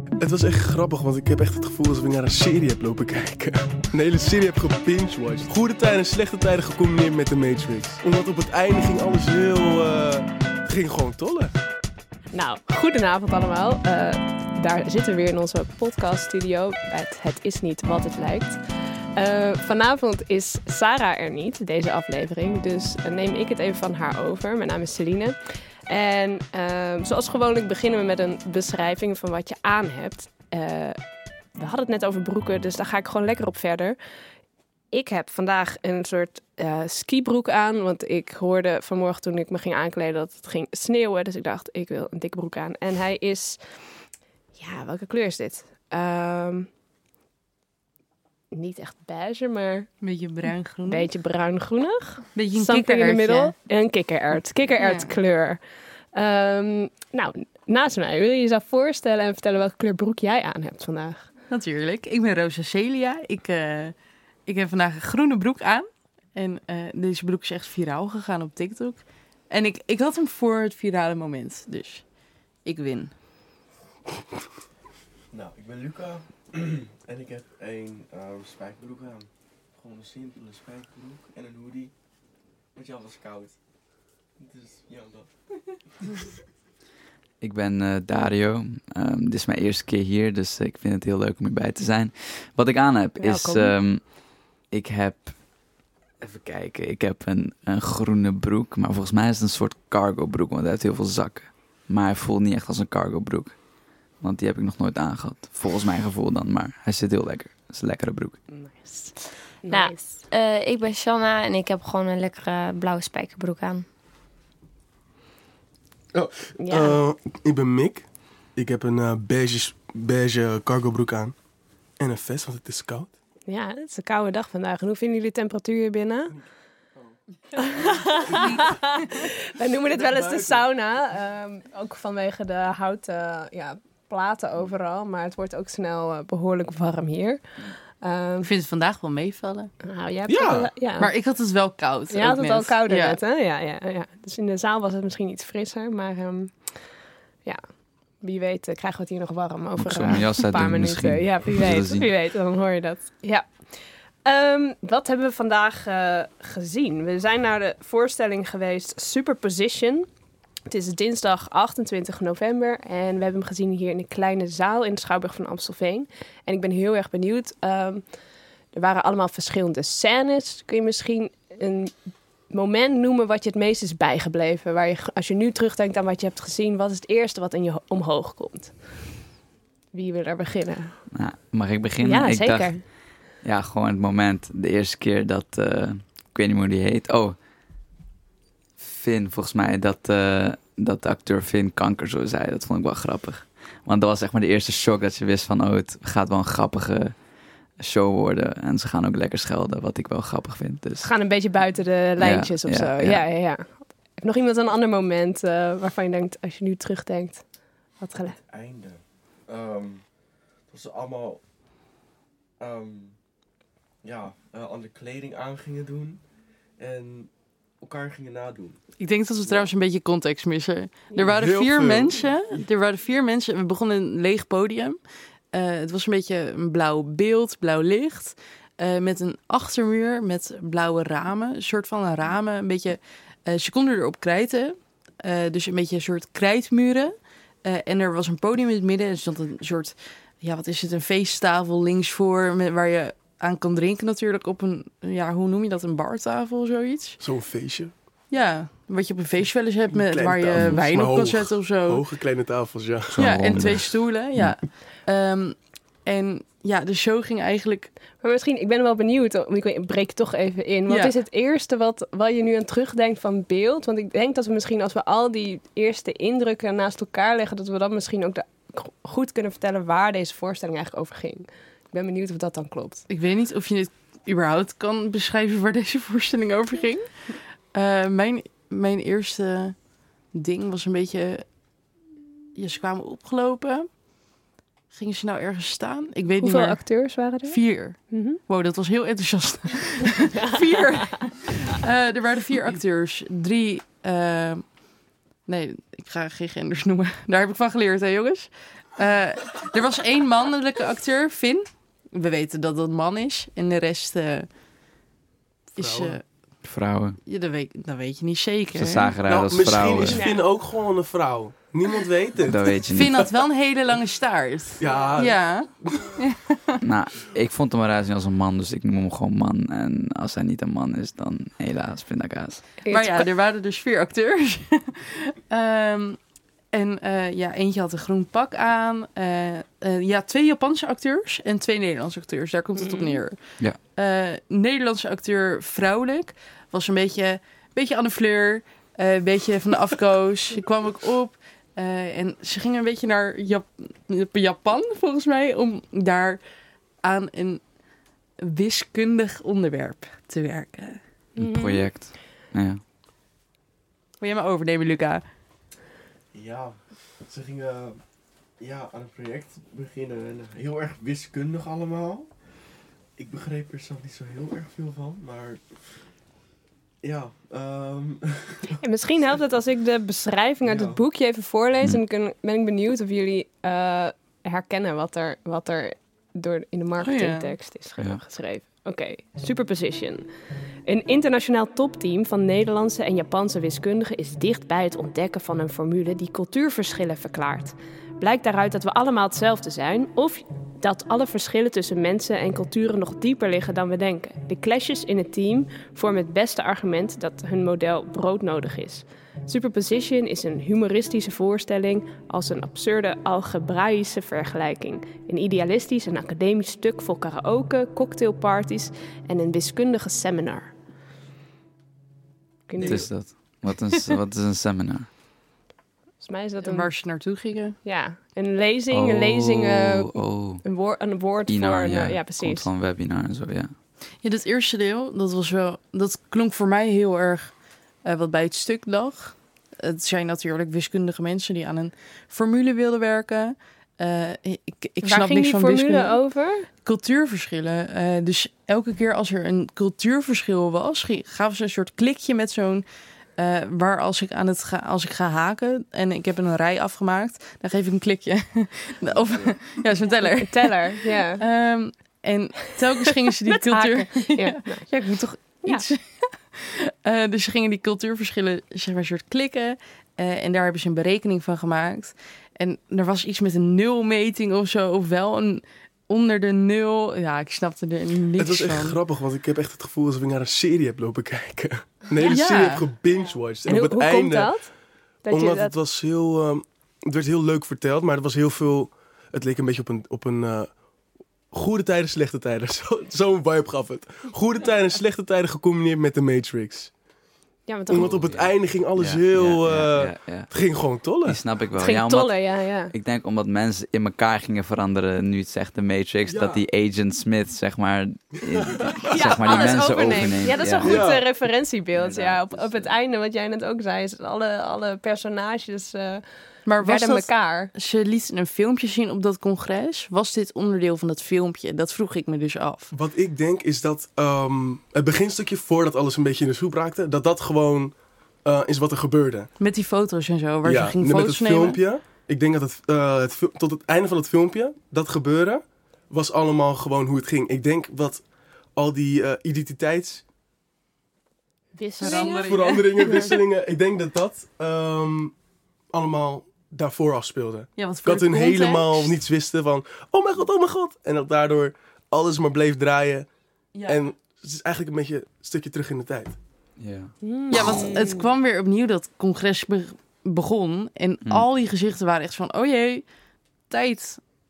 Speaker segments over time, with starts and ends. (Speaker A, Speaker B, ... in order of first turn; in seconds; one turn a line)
Speaker A: 0.2-11.6
Speaker B: 12.3-18.6
Speaker B: 19.2-25.4
Speaker B: 25.9-31.0
Speaker B: 31.6-34.0
Speaker B: 34.9-43.6
Speaker B: 44.6-46.7
Speaker B: 48.5-49.9
Speaker C: 50.0-51.1
Speaker B: 50.9-55.6
Speaker C: 52.4-53.5
Speaker C: 54.8-55.1
Speaker B: 56.1-61.3
Speaker C: 61.5-64.0
Speaker C: 64.5-72.0
Speaker C: 72.7-73.1
Speaker D: 75.3-81.9
Speaker D: 82.8-83.6
Speaker D: 84.4-85.3
Speaker D: 86.0-86.3
Speaker E: 87.4-94.1
Speaker B: 93.2-93.8
Speaker E: 94.7-95.3
Speaker E: 96.2-103.6
Speaker E: 104.2-108.4
Speaker B: 108.5-110.2
Speaker F: 109.7-113.9
Speaker A: 116.2-121.3
Speaker B: 116.6-117.0
Speaker A: 122.0-123.1
Speaker B: 123.5-126.3
Speaker B: 127.6-137.4
Speaker A: 129.9-130.6
Speaker B: 138.0-138.5
Speaker C: 138.4-139.7
Speaker B: 139.8-141.1
Speaker A: 140.3-140.7
Speaker C: 141.0-143.2
Speaker B: 142.1-146.7
Speaker B: 148.2-153.7
Speaker E: 149.8-152.1
Speaker B: 154.2-160.1
Speaker B: 160.7-168.0
Speaker B: 168.7-172.0
Speaker B: 172.5-178.8
Speaker B: 179.9-180.9
Speaker E: 181.1-182.8
Speaker B: 182.0-182.8
Speaker E: 183.4-187.4
Speaker E: 188.8-197.1
Speaker E: 197.8-201.1
Speaker B: 201.0-207.4
Speaker E: 202.2-203.2
Speaker B: 208.0-208.4
Speaker D: 208.2-210.0
Speaker D: 210.7-211.4
Speaker D: 212.6-213.2
Speaker D: 214.0-216.2
Speaker D: 216.8-217.3
Speaker D: 217.8-218.8
Speaker C: 219.0-225.0
Speaker A: 221.2-222.2
Speaker C: 225.5-247.2
Speaker A: 247.2-247.9
Speaker C: 248.3-252.1
Speaker A: 249.9-253.6
Speaker E: 250.6-250.8
Speaker E: 253.1-254.6
Speaker C: 253.2-257.9
Speaker B: 258.2-273.0
Speaker C: 260.9-261.1
Speaker C: 273.1-277.1
Speaker C: 277.7-279.8
Speaker C: 280.3-281.4
Speaker C: 282.6-283.9
Speaker C: 284.9-294.6
Speaker B: 286.4-287.6
Speaker B: 288.1-288.4
Speaker C: 295.5-304.5
Speaker C: 305.8-306.2
Speaker A: 305.8-306.2
Speaker E: 306.6-307.2
Speaker C: 307.3-309.2
Speaker E: 308.8-310.2
Speaker A: 309.3-312.8
Speaker B: 310.1-310.4
Speaker E: 312.4-313.3
Speaker C: 312.9-316.8
Speaker A: 314.8-316.2
Speaker E: 316.8-322.6
Speaker B: 322.8-323.2
Speaker C: 322.9-326.2
Speaker C: 326.7-346.4
Speaker B: 332.8-333.2
Speaker C: 347.0-347.6
Speaker C: 348.4-351.0
Speaker B: 351.4-351.9
Speaker E: 351.4-352.8
Speaker C: 354.2-355.2
Speaker D: 356.3-358.0
Speaker D: 358.6-362.3
Speaker D: 363.2-365.8
Speaker D: 367.0-368.8
Speaker B: 368.8-380.2
Speaker D: 370.6-371.0
Speaker C: 377.0-377.5
Speaker B: 380.9-410.7
Speaker B: 412.7-413.1
Speaker E: 412.8-415.1
Speaker B: 416.2-416.9
Speaker C: 416.6-417.8
Speaker B: 417.8-422.7
Speaker E: 418.9-420.6
Speaker E: 421.5-423.7
Speaker C: 424.2-427.5
Speaker C: 428.0-436.2
Speaker B: 435.0-436.7
Speaker C: 436.9-442.9
Speaker C: 443.4-469.0
Speaker B: 450.3-451.4
Speaker B: 453.6-454.9
Speaker A: 468.4-474.5
Speaker C: 472.2-472.9
Speaker B: 473.7-474.7
Speaker B: 475.2-475.8
Speaker A: 475.3-480.7
Speaker A: 481.5-486.9
Speaker B: 487.7-488.2
Speaker A: 487.9-491.4
Speaker E: 487.9-490.5
Speaker E: 491.2-501.1
Speaker B: 491.8-492.9
Speaker A: 496.3-496.6
Speaker A: 498.5-500.1
Speaker B: 499.1-506.2
Speaker A: 500.8-501.2
Speaker E: 501.9-502.9
Speaker C: 506.7-512.9
Speaker B: 506.8-507.7
Speaker A: 512.9-519.5
Speaker C: 519.6-521.8
Speaker A: 520.6-528.2
Speaker A: 528.8-530.2
Speaker B: 531.8-533.3
Speaker C: 532.0-533.2
Speaker A: 532.0-535.3
Speaker A: 535.9-543.3
Speaker C: 537.8-539.1
Speaker C: 543.7-544.1
Speaker A: 543.9-546.4
Speaker E: 546.8-547.1
Speaker B: 547.2-548.3
Speaker C: 547.5-553.0
Speaker C: 553.7-554.2